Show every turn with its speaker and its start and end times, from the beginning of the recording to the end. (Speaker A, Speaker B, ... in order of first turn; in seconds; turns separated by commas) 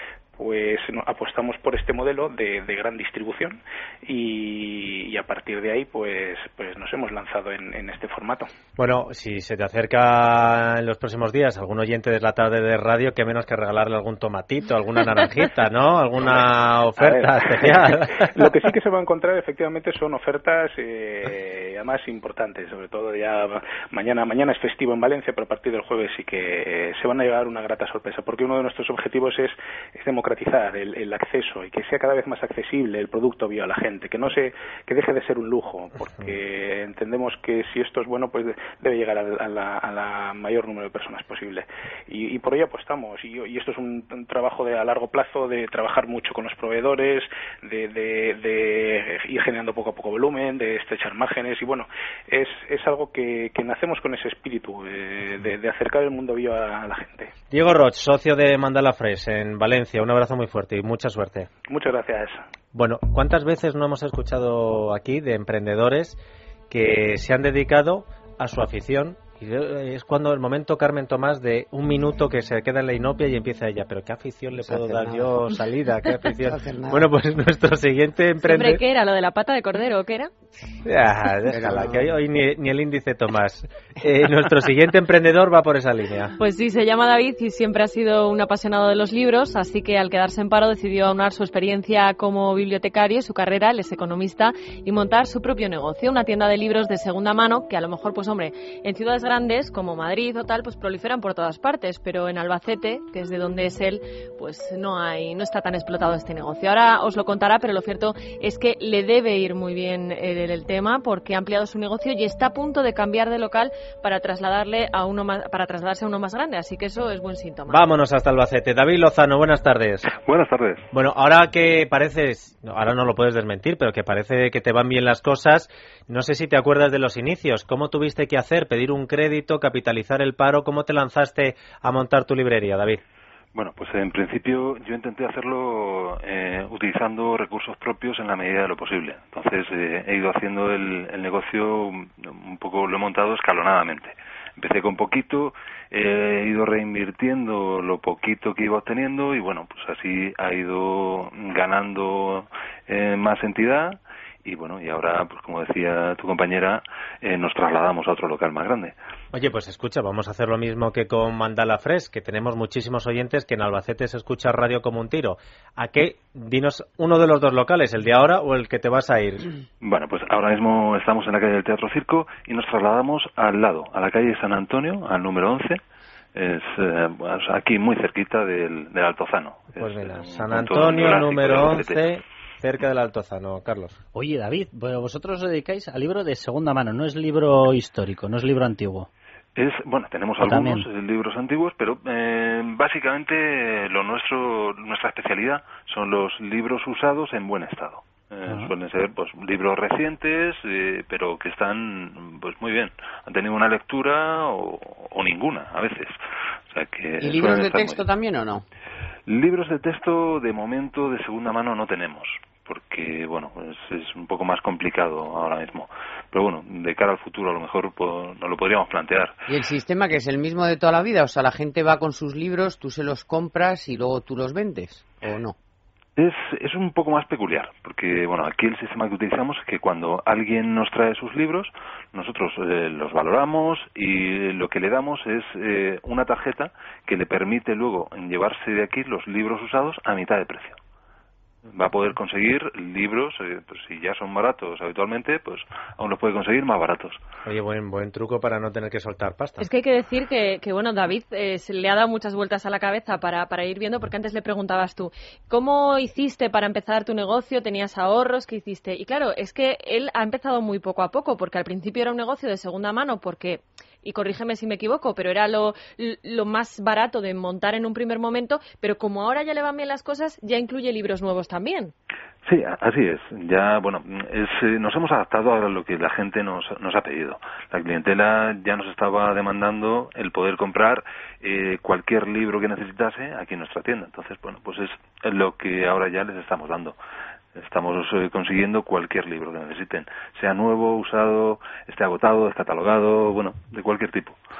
Speaker A: 0.4-8.5, Speaker B: 8.8-18.5, Speaker A: 17.0-57.3, Speaker B: 36.1-36.3, Speaker B: 57.5-61.5, Speaker A: 61.7-62.4, Speaker B: 62.7-78.8, Speaker C: 74.6-75.5, Speaker C: 76.5-77.1, Speaker D: 78.4-80.3, Speaker B: 80.8-86.3, Speaker C: 81.5-82.1, Speaker D: 86.4-117.8, Speaker B: 117.7-120.1, Speaker E: 120.2-120.8, Speaker B: 120.9-133.0, Speaker E: 133.5-158.9, Speaker B: 159.3-169.5, Speaker E: 169.8-175.8, Speaker E: 176.3-182.0, Speaker B: 179.8-184.0, Speaker F: 184.1-189.1, Speaker E: 189.6-206.1, Speaker F: 190.4-190.9, Speaker F: 198.5-198.7, Speaker E: 206.7-208.0, Speaker C: 207.2-208.6, Speaker E: 209.3-219.3, Speaker C: 219.5-225.6, Speaker E: 226.2-240.8, Speaker E: 241.7-247.2, Speaker B: 247.4-249.7, Speaker D: 249.6-271.9, Speaker E: 272.4-286.9, Speaker E: 287.5-294.4